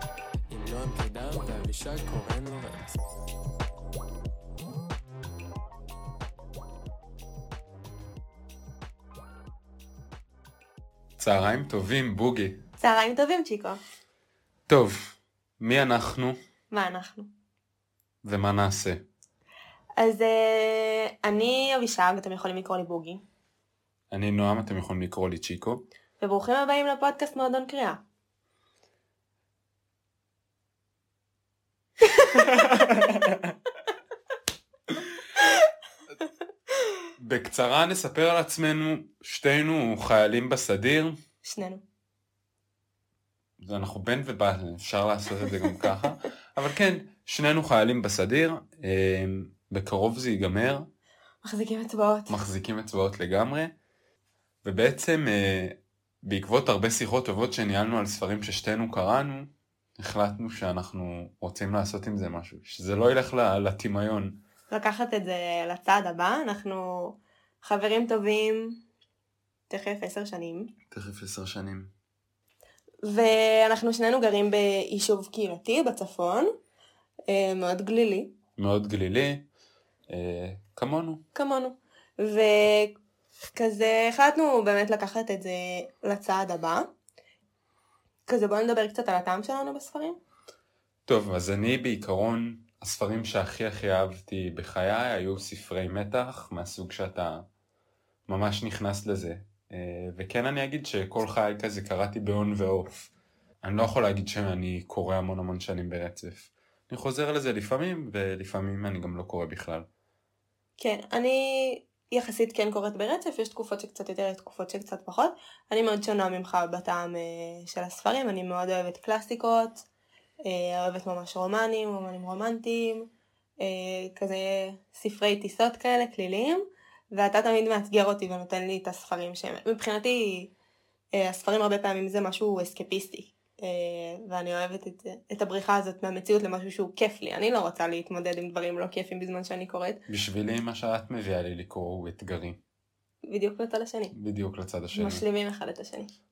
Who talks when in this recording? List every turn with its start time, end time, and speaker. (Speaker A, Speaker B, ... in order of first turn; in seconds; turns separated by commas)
Speaker A: 0.5-3.0, Speaker B: 11.2-12.6, Speaker C: 12.8-13.8, Speaker B: 14.7-16.4, Speaker C: 16.7-17.3, Speaker B: 18.2-19.0, Speaker C: 20.0-23.2, Speaker B: 24.1-25.8, Speaker C: 26.2-28.0, Speaker C: 32.2-32.5, Speaker B: 32.6-33.4, Speaker B: 37.2-41.2, Speaker C: 41.4-41.8, Speaker B: 43.6-50.9, Speaker C: 51.4-52.4, Speaker B: 52.3-53.7, Speaker B: 54.6-64.3, Speaker C: 64.7-68.8, Speaker C: 69.7-70.7, Speaker B: 70.9-71.9, Speaker C: 73.0-76.5, Speaker C: 77.3-78.3, Speaker B: 78.6-79.4, Speaker B: 80.1-81.2, Speaker C: 81.3-82.9, Speaker C: 83.5-86.9, Speaker C: 88.2-90.2, Speaker B: 91.1-97.4, Speaker B: 98.3-103.1, Speaker B: 103.6-109.8, Speaker C: 110.8-119.8, Speaker C: 120.4-123.1, Speaker C: 123.6-126.6, Speaker C: 127.1-130.5, Speaker C: 131.1-140.0, Speaker B: 140.1-142.6, Speaker C: 143.3-144.1, Speaker B: 144.1-145.2, Speaker C: 144.9-146.1